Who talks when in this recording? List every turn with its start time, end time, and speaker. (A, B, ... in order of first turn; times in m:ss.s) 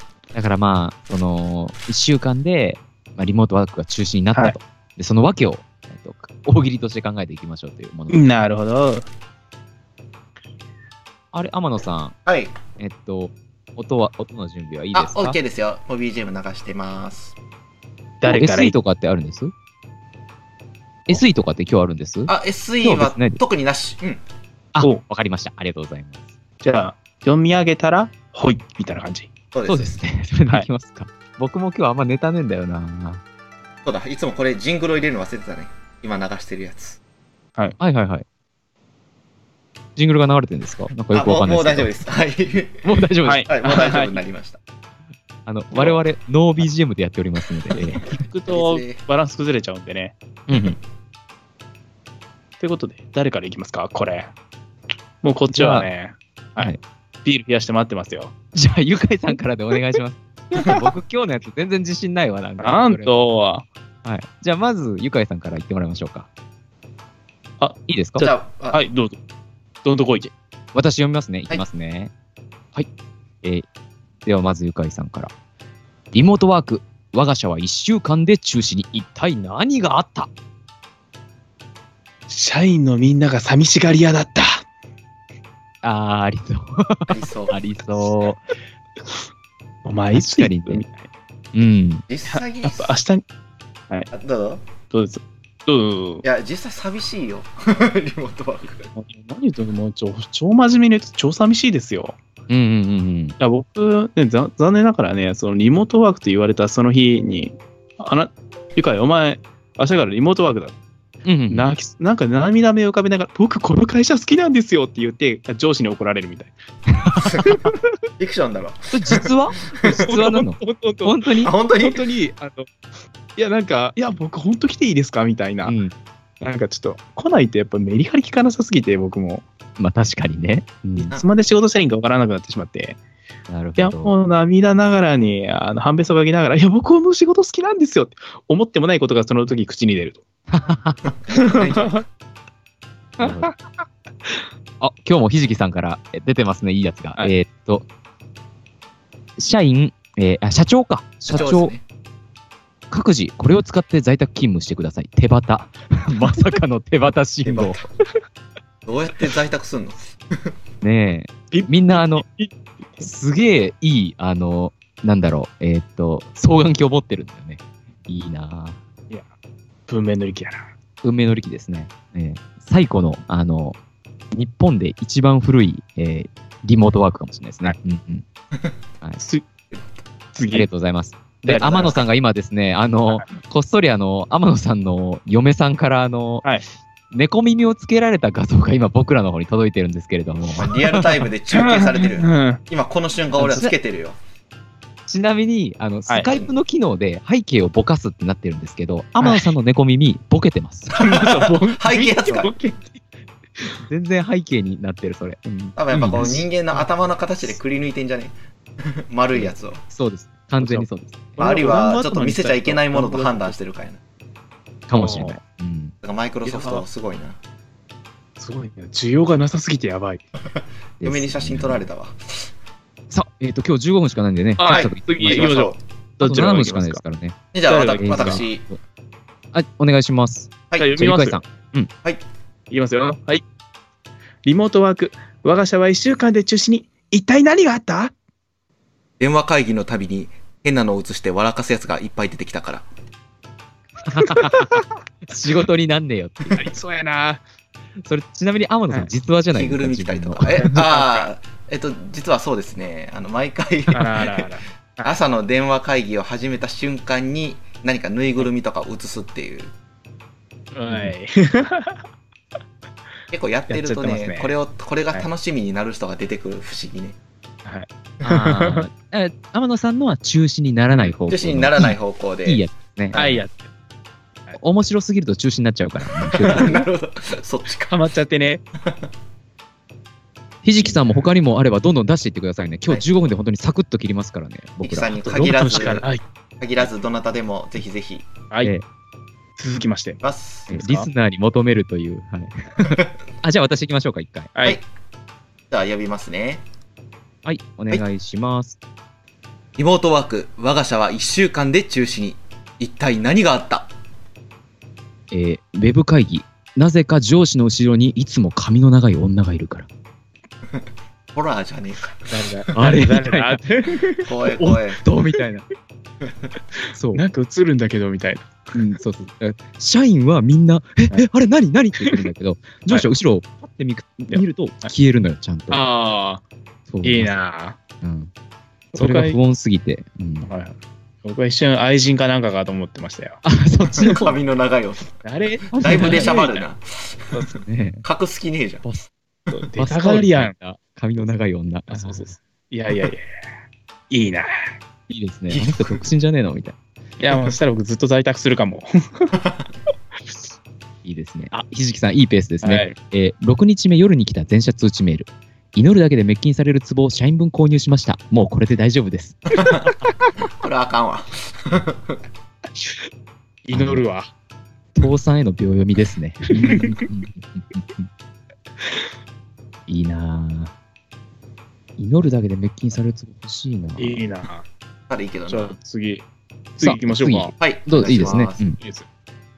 0:00.3-0:08.3 A
0:08.1-0:09.0 B
0:11.3-0:12.2 A
0:12.3-0:12.6 C
0:12.8-0:15.4 A
0:14.9-0:17.4 C
0:18.2-0:18.8 B
0:18.3-0:19.5 A
0:21.1-0:23.4 A
0:22.3-0:24.2 C
0:24.7-0:26.2 A
0:26.6-0:29.3 B
0:29.5-0:30.0 C
0:29.7-0:33.2 A
0:33.8-0:37.0 C
0:37.8-0:38.2 A
0:40.0-0:41.9 A
0:41.1-0:42.9 C
0:42.8-0:43.7 A
0:43.2-0:44.1 B
0:43.5-0:44.6 C
0:45.5-0:48.2 A
0:45.7-0:46.0 C
0:47.7-0:49.0 C
0:48.0-0:50.2 B
0:50.5-0:50.8 A
0:52.6-0:54.3 B
0:55.2-0:58.3 B
0:55.5-0:55.9 A
0:58.6-1:03.1 A
1:02.6-1:03.7 B
1:04.0-1:06.3 A
1:07.6-1:09.2 B
1:07.9-1:08.3 A
1:08.2-1:08.8 C
1:09.8-1:10.3 B
1:10.7-1:12.1 A
1:14.2-1:15.3 A
1:16.1-1:20.3 A
1:22.3-1:24.6 B
1:25.8-1:28.5 A
1:27.1-1:27.6 C
1:29.8-1:31.1 B
1:30.1-1:30.8 A
1:31.5-1:32.0 A
1:32.1-1:33.0 C
1:32.3-1:33.2 B
1:34.1-1:34.6 C
1:34.9-1:36.2 B
1:36.2-1:38.9 C
1:38.9-1:42.2 B
1:42.5-1:43.4 A
1:43.4-1:50.8 B
1:51.2-1:51.7 A
1:51.5-1:56.6 B
1:57.0-1:57.5 A
1:57.2-1:57.6 C
1:58.2-1:59.3 C
1:58.9-2:01.5 A
1:59.8-2:00.0 C
1:59.9-2:02.7 B
2:01.4-2:02.0 C
2:03.4-2:05.8 B
2:05.6-2:05.9 A
2:06.4-2:09.4 B
2:09.8-2:11.1 A
2:11.1-2:13.0 B
2:13.5-2:14.2 A
2:13.8-2:20.2 B
2:20.5-2:21.0 A
2:21.1-2:22.0 C
2:21.4-2:22.0 B
2:23.2-2:23.5 A
2:23.2-2:23.6 B
2:24.8-2:27.9 A
2:29.4-2:31.7 A
2:31.3-2:31.8 C
2:32.9-2:37.8 A
2:37.4-2:37.9 C
2:38.9-2:40.5 C
2:40.8-2:42.2 A
2:41.5-2:43.1 B
2:43.0-2:48.8 A
2:49.9-2:50.7 B
2:51.0-2:53.8 A
2:54.3-2:58.2 A
2:59.7-3:00.0 C
3:00.4-3:00.7 B
3:00.5-3:06.4 A
3:01.4-3:02.0 B
3:01.6-3:02.1 C
3:07.1-3:10.7 A
3:10.6-3:14.2 C
3:11.0-3:12.6 B
3:13.4-3:13.7 B
3:15.1-3:21.1 A
3:19.2-3:19.5 B
3:21.0-3:23.0 B
3:21.0-3:22.5 C
3:23.8-3:26.5 A
3:25.8-3:29.8 C
3:29.3-3:31.4 A
3:30.6-3:33.6 B
3:31.4-3:34.0 C
3:34.9-3:36.0 A
3:35.0-3:35.4 B
3:36.0-3:37.4 C
3:36.4-3:36.8 B
3:38.4-3:40.2 B
3:40.6-3:42.5 C
3:41.0-3:41.8 A
3:43.1-3:45.6 A
3:44.6-3:47.0 B
3:44.6-3:45.8 C
3:46.2-3:47.4 A
3:47.5-3:48.7 C
3:47.7-3:48.4 B
3:48.0-3:48.8 A
3:49.5-3:51.9 A
3:50.8-3:51.4 B
3:52.7-3:53.4 B
3:54.4-3:58.1 B
3:59.2-4:02.9 C
4:04.0-4:06.7 A
4:04.4-4:04.8 B
4:06.5-4:07.4 B
4:08.0-4:10.7 A
4:09.5-4:14.5 C
4:10.5-4:11.3 B
4:13.9-4:15.1 B
4:15.0-4:19.7 C
4:20.7-4:22.0 B
4:20.9-4:21.1 A
4:23.3-4:27.2 C
4:23.7-4:24.5 B
4:27.6-4:28.9 B
4:28.2-4:33.2 A
4:31.3-4:33.4 C
4:33.2-4:33.7 B
4:34.6-4:36.9 A
4:36.3-4:38.0 C
4:37.9-4:38.6 B
4:40.6-4:46.0 A
4:44.8-4:46.1 C
4:45.3-4:46.2 B
4:46.6-4:48.3 C
4:49.6-4:50.2 B
4:50.2-4:50.7 C
4:50.7-4:54.5 A
4:50.7-4:51.1 B
4:54.6-4:54.8 B
4:55.7-4:56.6 C
4:57.4-4:58.8 A
4:59.8-5:03.9 C
5:05.3-5:09.9 A
5:11.3-5:12.2 C
5:12.3-5:14.3 B
5:12.7-5:13.6 A
5:14.2-5:15.0 C
5:14.5-5:15.6 A
5:16.9-5:17.2 A
5:17.1-5:18.6 B
5:18.8-5:25.8 A
5:24.3-5:24.9 B
5:25.7-5:26.4 B
5:26.9-5:27.4 A
5:27.0-5:27.8 B
5:28.0-5:28.3 A
5:28.9-5:29.4 B
5:29.0-5:30.5 A
5:30.5-5:33.4 B
5:33.4-5:34.4 A
5:34.0-5:35.1 C
5:35.2-5:36.7 B
5:35.7-5:36.4 A
5:35.8-5:37.4 C
5:37.5-5:38.0 A
5:38.0-5:38.8 C
5:38.8-5:39.1 A
5:39.5-5:40.5 B
5:39.8-5:42.3 A
5:41.9-5:43.2 B
5:44.1-5:44.5 B
5:45.1-5:46.8 A
5:47.2-5:49.4 B
5:51.0-5:59.4 A
5:52.6-5:53.0 B
5:59.6-5:59.9 C
6:00.5-6:02.2 C
6:03.6-6:04.3 B
6:03.7-6:04.0 A
6:05.0-6:08.1 A
6:06.6-6:07.0 B
6:09.9-6:10.7 A
6:12.0-6:14.2 A
6:14.0-6:14.6 B
6:15.1-6:15.8 C
6:15.5-6:16.2 B
6:16.8-6:17.5 B
6:16.8-6:18.8 A
6:17.6-6:18.7 C
6:18.8-6:19.1 B